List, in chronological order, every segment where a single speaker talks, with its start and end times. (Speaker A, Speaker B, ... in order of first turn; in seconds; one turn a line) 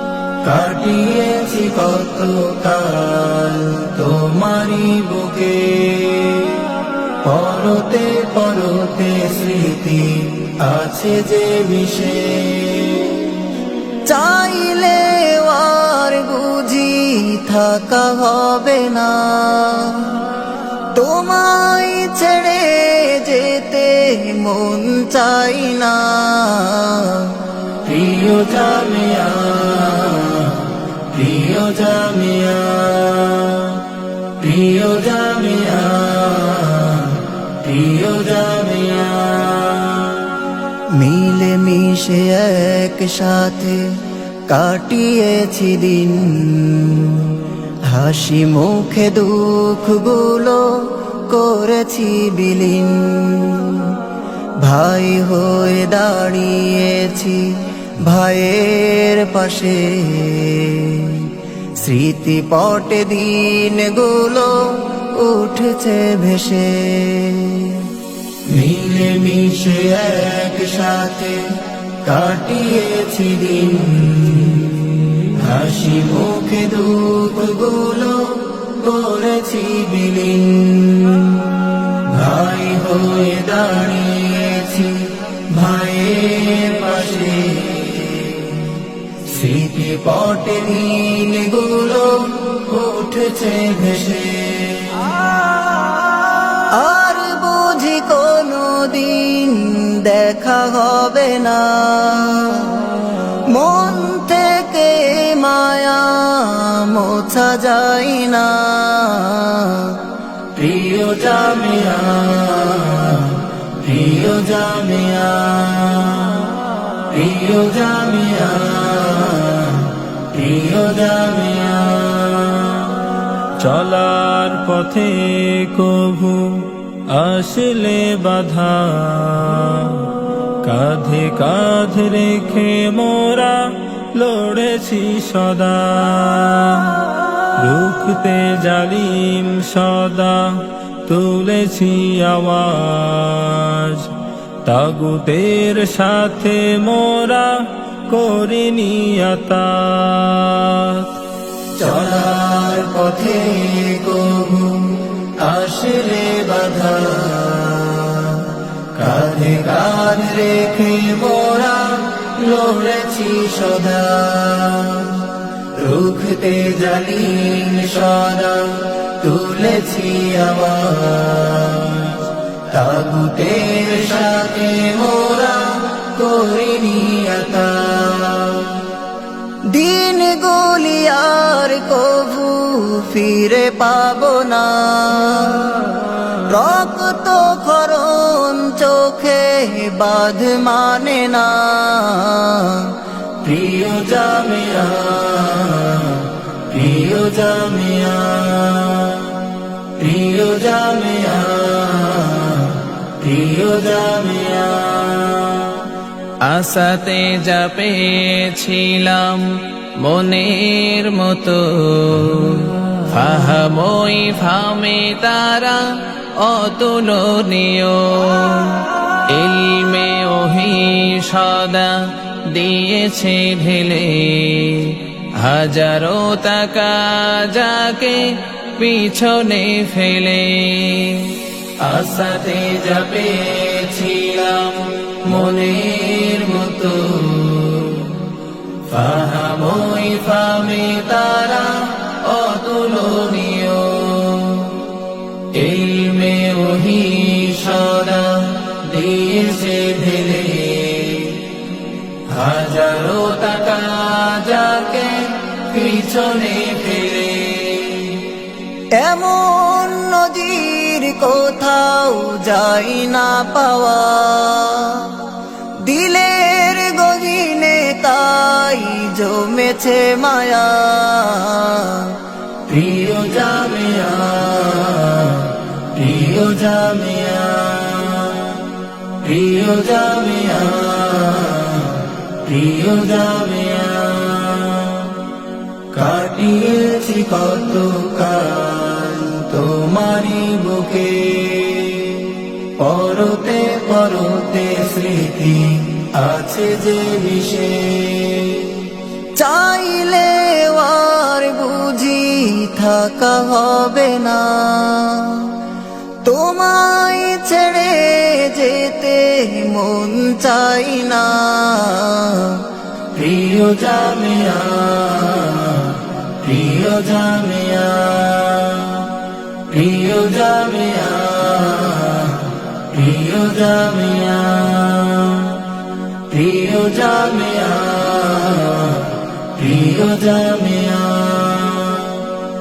Speaker A: 0.4-6.7
Speaker A: 7.2-13.2
Speaker A: 14.1-20.2
Speaker A: 20.9-33.8
Speaker A: 34.4-40.2
Speaker A: 40.9-54.0
Speaker A: 54.6-67.9
Speaker A: 68.5-88.7
Speaker A: 89.2-95.1
Speaker A: 96.6-116.5
Speaker A: 117.0-122.9
Speaker B: 123.6-130.1
Speaker A: 126.1-126.6
Speaker B: 130.6-140.6
Speaker A: 141.1-141.3
Speaker B: 141.1-144.1
Speaker B: 144.6-151.0
Speaker A: 151.8-178.9
Speaker A: 179.7-199.3
Speaker A: 200.0-205.8
Speaker C: 206.4-237.1
Speaker B: 231.8-232.9
Speaker B: 233.4-236.3
Speaker B: 237.1-238.2
Speaker B: 238.9-243.4
Speaker C: 239.6-241.5
Speaker C: 242.2-244.2
Speaker B: 244.2-244.5
Speaker B: 245.5-247.4
Speaker A: 247.4-251.4
Speaker B: 252.3-258.2
Speaker C: 253.4-253.8
Speaker A: 258.9-265.2
Speaker A: 265.8-278.6
Speaker A: 279.2-285.1
Speaker A: 285.9-298.8
Speaker A: 299.4-305.6
Speaker A: 306.2-319.1
Speaker A: 319.7-325.7
Speaker A: 326.3-332.2